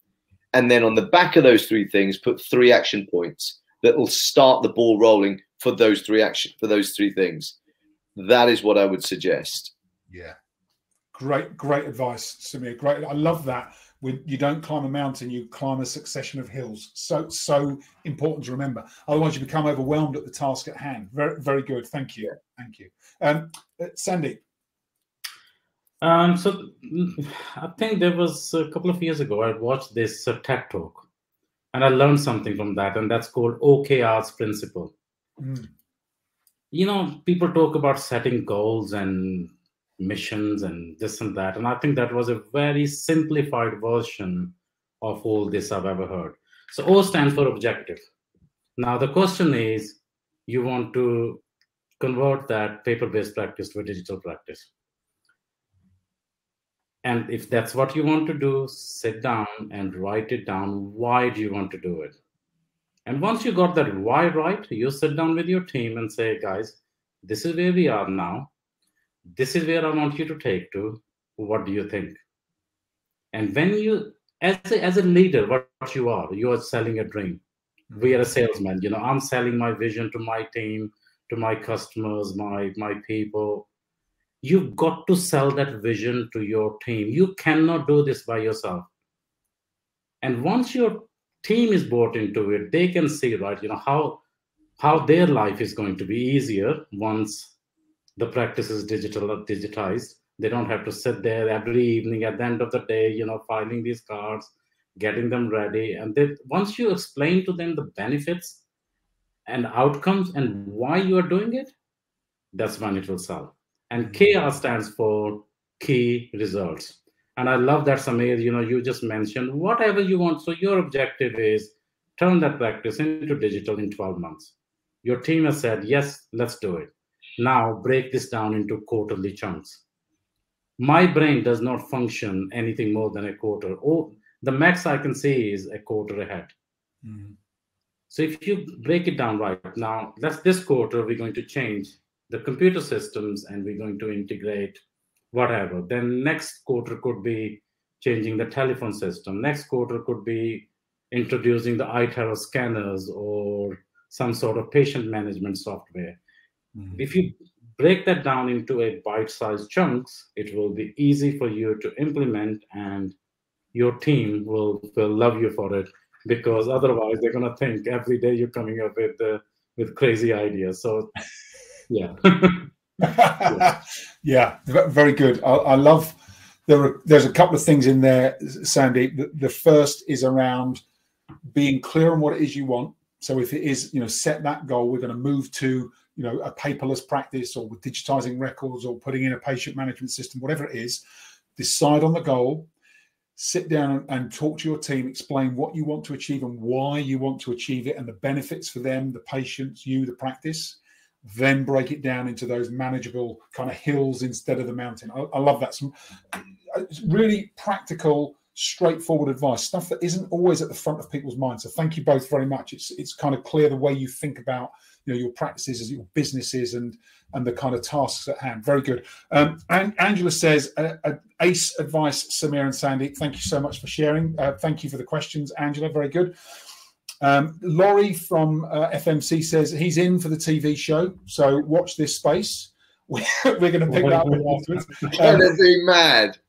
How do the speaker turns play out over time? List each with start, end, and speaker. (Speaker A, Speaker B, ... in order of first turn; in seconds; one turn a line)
Speaker A: 0.5-7.5
Speaker A: 8.2-9.7
Speaker B: 10.1-10.3
Speaker B: 11.1-24.4
Speaker C: 26.0-31.0
Speaker C: 31.7-34.9
Speaker B: 35.4-35.7
Speaker C: 36.7-48.0
Speaker C: 48.8-51.4
Speaker C: 52.0-54.7
Speaker C: 57.0-62.1
Speaker C: 63.0-68.5
Speaker C: 69.3-72.2
Speaker C: 73.3-77.4
Speaker B: 77.9-78.2
Speaker C: 78.0-83.7
Speaker C: 84.4-88.9
Speaker C: 90.2-94.2
Speaker C: 94.8-97.5
Speaker C: 98.2-108.6
Speaker C: 109.5-111.7
Speaker C: 112.5-124.5
Speaker B: 114.0-114.2
Speaker C: 125.0-129.8
Speaker C: 130.8-136.5
Speaker B: 137.0-137.3
Speaker C: 138.1-144.8
Speaker C: 145.3-156.2
Speaker C: 156.9-163.1
Speaker C: 163.7-171.2
Speaker C: 171.9-172.7
Speaker B: 173.0-180.8
Speaker B: 181.5-191.0
Speaker B: 191.6-192.7
Speaker B: 193.3-226.3
Speaker B: 227.2-235.6
Speaker A: 235.1-236.4